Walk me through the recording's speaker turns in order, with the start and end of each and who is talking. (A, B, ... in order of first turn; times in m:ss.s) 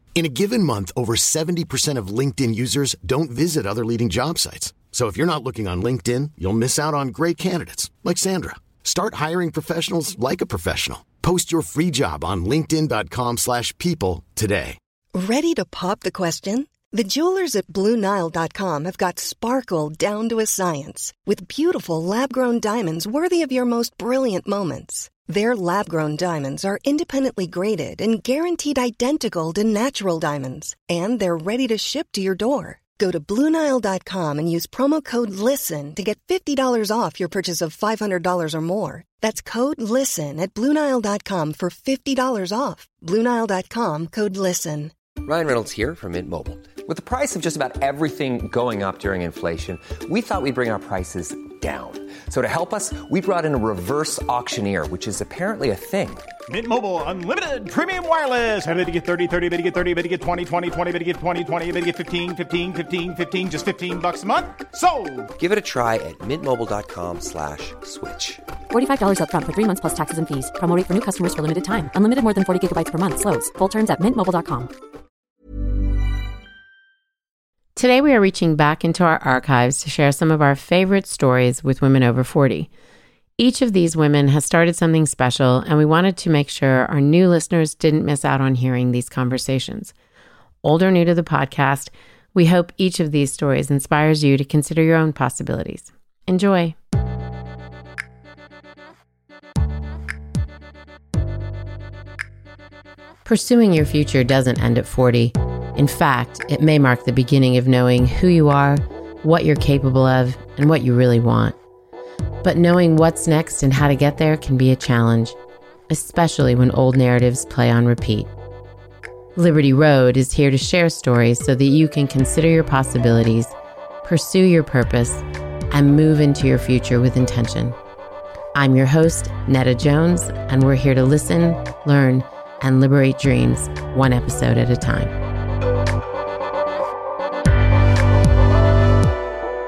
0:00.2-0:14.8 A
0:15.1-0:44.9 B
0:45.2-0:56.3 C
0:56.5-1:05.3 D
1:05.4-1:08.4 C
1:08.7-1:14.7 E
1:17.8-1:22.7 F
1:23.4-1:29.9 F
1:30.6-1:36.8 F
1:43.2-1:51.6 F
1:52.4-1:55.4 F
1:55.9-1:58.3 F
1:59.3-2:07.8 F
2:08.5-2:15.1 F